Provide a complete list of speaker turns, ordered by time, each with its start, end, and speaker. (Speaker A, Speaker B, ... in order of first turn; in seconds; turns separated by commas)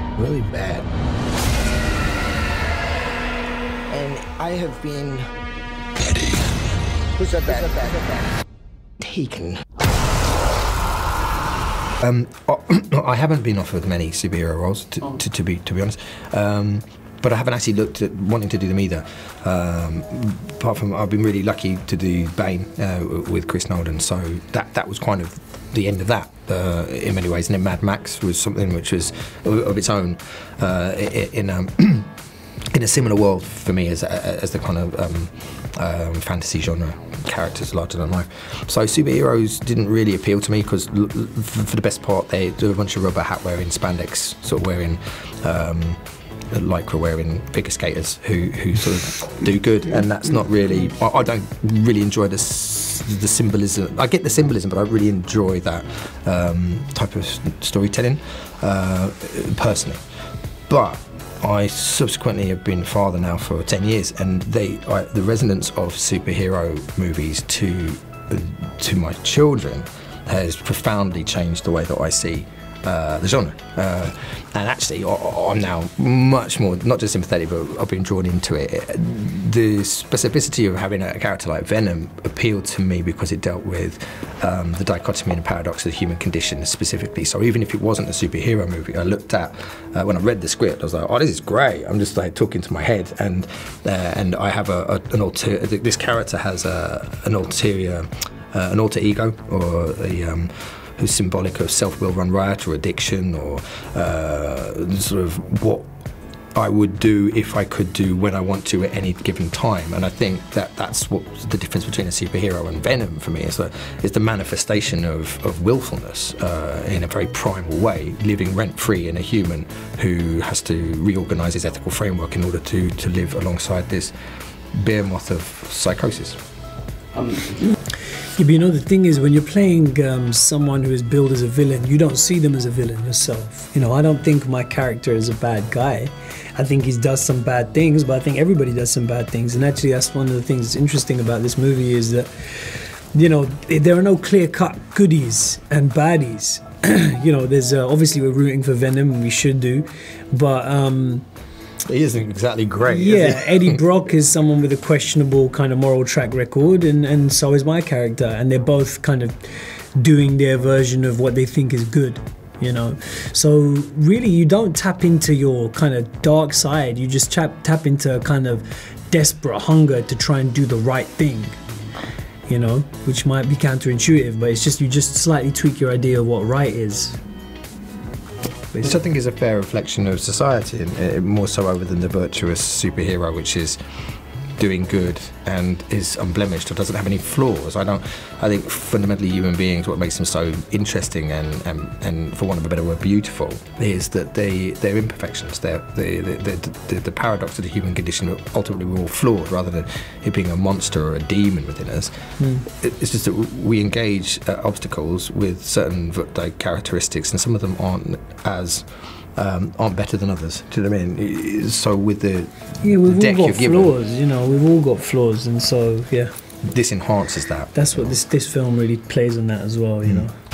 Speaker A: 0.2-0.8, Speaker A: 3.9-5.3, Speaker A: 6.1-6.5, Speaker A: 7.2-8.3, Speaker A: 9.0-9.6, Speaker B: 12.0-32.1, Speaker B: 32.7-46.0, Speaker B: 46.5-60.0, Speaker B: 60.7-105.9, Speaker B: 106.5-124.1, Speaker B: 124.8-126.4, Speaker C: 128.3-151.3, Speaker B: 151.8-153.8, Speaker C: 152.8-171.6, Speaker C: 172.5-177.2, Speaker B: 178.8-183.8, Speaker B: 184.6-202.1, Speaker C: 202.4-202.7, Speaker B: 202.7-208.8, Speaker B: 209.4-213.9, Speaker C: 212.8-216.3, Speaker B: 216.7-218.2, Speaker C: 217.7-220.3